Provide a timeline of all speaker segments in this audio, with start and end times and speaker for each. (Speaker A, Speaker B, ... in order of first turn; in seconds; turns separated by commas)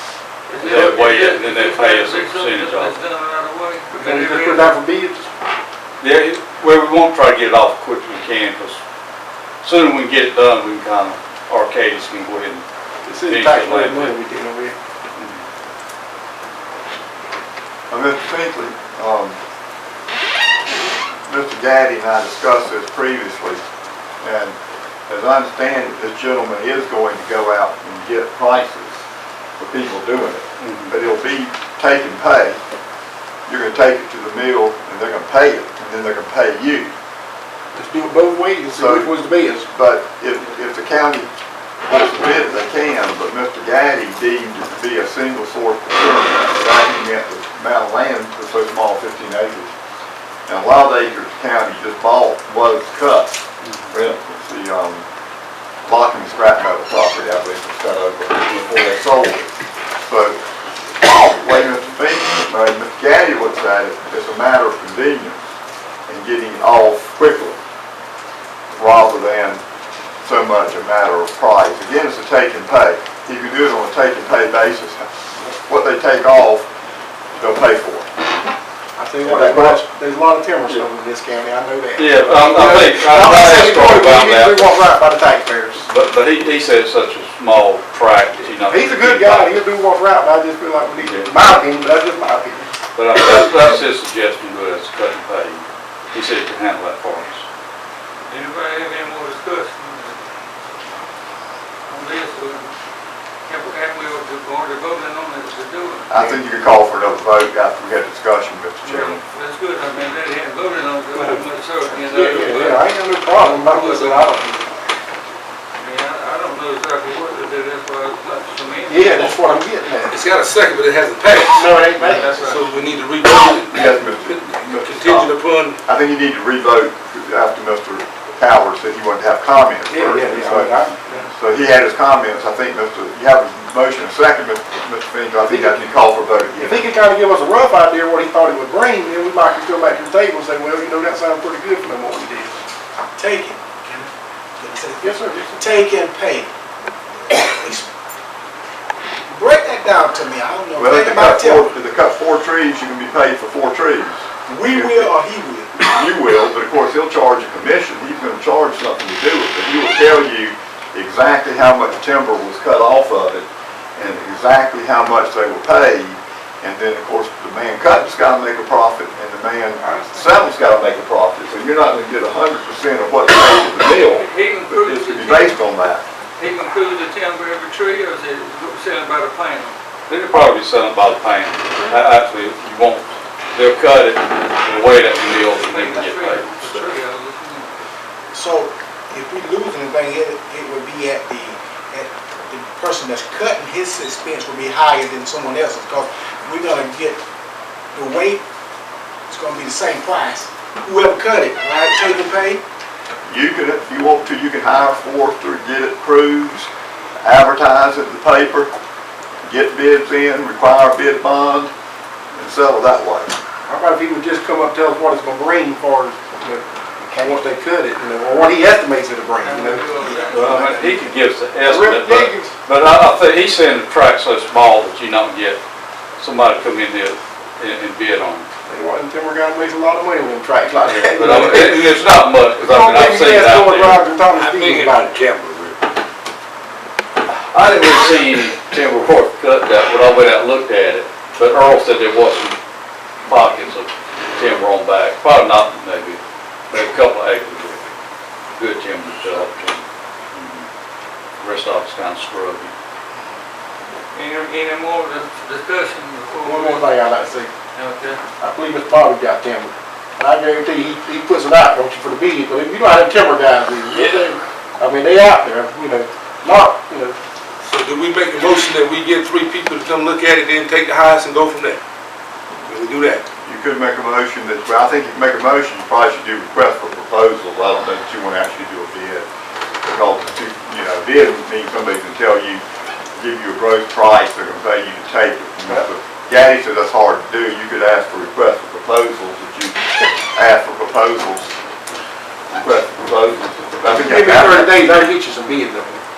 Speaker A: 0.5-4.8, Speaker B: 0.6-2.9, Speaker C: 3.9-5.3, Speaker B: 6.0-8.8, Speaker B: 9.6-12.6, Speaker C: 13.1-14.7, Speaker B: 13.2-14.2, Speaker B: 15.2-15.4, Speaker D: 17.9-19.4, Speaker D: 21.3-23.6, Speaker D: 24.2-24.6, Speaker D: 25.1-29.0, Speaker D: 29.6-32.6, Speaker B: 30.6-31.0, Speaker D: 33.5-36.9, Speaker C: 37.7-39.7, Speaker D: 38.7-39.1, Speaker D: 39.7-41.3, Speaker D: 41.9-49.7, Speaker D: 50.5-55.0, Speaker B: 53.6-53.9, Speaker D: 55.9-60.4, Speaker D: 61.0-65.4, Speaker D: 66.1-67.6, Speaker D: 68.8-69.6, Speaker D: 70.2-76.7, Speaker D: 77.4-78.1, Speaker C: 79.0-85.9, Speaker D: 79.2-79.8, Speaker B: 79.5-79.8, Speaker B: 82.0-84.8, Speaker B: 85.8-89.6, Speaker C: 88.7-92.7, Speaker B: 91.0-91.3, Speaker B: 93.0-97.4, Speaker A: 98.3-100.2, Speaker A: 101.9-102.7, Speaker A: 103.5-106.1, Speaker D: 106.1-109.2, Speaker A: 108.8-114.6, Speaker C: 112.1-114.7, Speaker A: 115.8-119.4, Speaker C: 118.9-120.2, Speaker E: 120.1-125.8, Speaker C: 121.5-122.4, Speaker A: 121.7-122.8, Speaker D: 123.7-125.3, Speaker D: 125.8-130.8, Speaker C: 129.9-131.2, Speaker D: 131.3-136.9, Speaker C: 136.6-142.6, Speaker F: 143.2-146.5, Speaker C: 145.0-145.6, Speaker F: 147.3-147.9, Speaker F: 149.3-151.7, Speaker D: 150.8-155.1, Speaker F: 154.5-155.9, Speaker D: 155.8-176.0, Speaker C: 169.8-170.4, Speaker A: 174.0-175.6, Speaker A: 176.4-179.8, Speaker B: 180.1-186.5, Speaker A: 185.2-187.8, Speaker F: 188.3-197.2, Speaker F: 197.9-198.4, Speaker F: 199.3-202.6, Speaker D: 203.2-206.7, Speaker D: 207.2-208.7, Speaker D: 209.4-211.7, Speaker D: 212.3-213.3, Speaker C: 213.7-219.8, Speaker A: 219.4-221.1, Speaker B: 220.3-225.6, Speaker C: 221.7-222.5, Speaker B: 226.2-228.5, Speaker C: 228.7-231.8, Speaker B: 230.8-234.1, Speaker E: 231.1-232.1, Speaker C: 232.6-235.2, Speaker E: 234.2-235.8, Speaker B: 237.3-242.6, Speaker B: 243.2-246.2, Speaker B: 246.7-247.8, Speaker B: 248.6-249.8, Speaker B: 250.3-250.7, Speaker B: 251.4-252.7, Speaker A: 254.1-257.2, Speaker C: 256.4-257.5, Speaker A: 257.7-258.2, Speaker C: 258.4-267.2, Speaker E: 263.9-264.2, Speaker E: 267.6-271.8, Speaker E: 272.6-273.2, Speaker D: 273.4-279.3, Speaker D: 279.8-282.6, Speaker D: 283.1-291.6, Speaker D: 292.5-294.8, Speaker C: 293.9-296.0